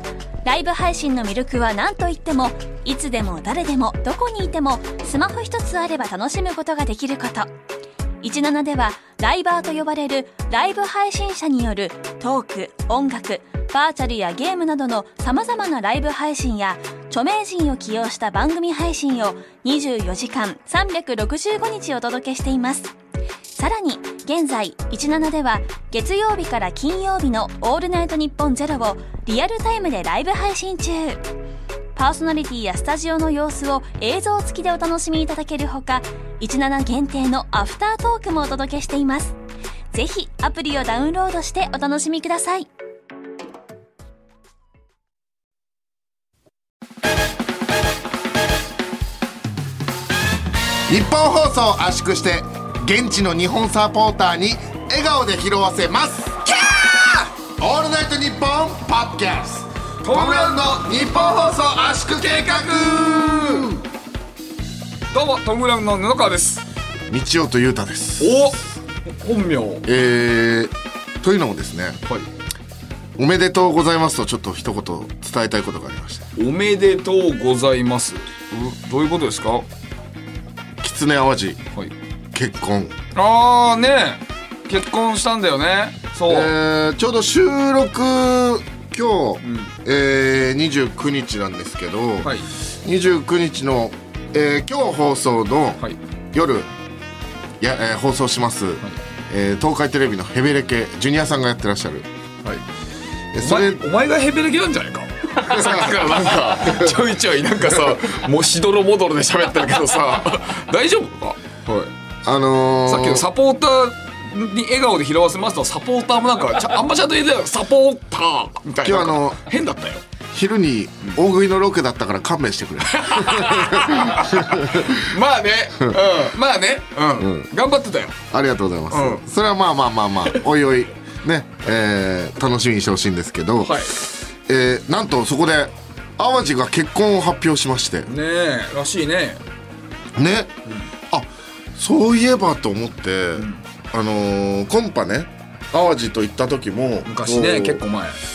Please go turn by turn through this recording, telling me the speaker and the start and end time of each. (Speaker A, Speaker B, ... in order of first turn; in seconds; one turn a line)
Speaker A: 0.5-7.5
Speaker A: 8.2-22.9
Speaker A: 23.6-31.2
Speaker A: 31.9-39.4
Speaker A: 39.9-42.7
Speaker B: 50.9-63.8
Speaker C: 60.0-61.6
Speaker C: 62.2-63.7
Speaker C: 65.1-66.6
Speaker B: 67.1-68.5
Speaker C: 68.2-68.6
Speaker C: 69.2-69.9
Speaker B: 69.8-72.0
Speaker B: 73.2-76.3
Speaker C: 76.4-79.7
Speaker B: 80.8-81.6
Speaker B: 82.3-83.0
Speaker C: 83.1-86.5
Speaker B: 86.3-95.8
Speaker C: 89.4-89.7
Speaker C: 92.2-92.5
Speaker B: 96.3-96.7
Speaker B: 97.6-102.1
Speaker B: 103.3-103.8
Speaker C: 103.4-111.9
Speaker B: 105.4-107.0
Speaker B: 112.2-113.2
Speaker C: 112.9-120.0
Speaker B: 118.8-119.4
Speaker B: 120.3-125.0
Speaker C: 122.9-128.2
Speaker B: 127.2-127.5
Speaker B: 128.3-138.1
Speaker C: 128.9-129.2
Speaker C: 133.6-133.9
Speaker C: 138.1-139.4
Speaker B: 140.1-140.6
Speaker B: 141.1-147.8
Speaker C: 143.3-143.6
Speaker C: 147.1-148.2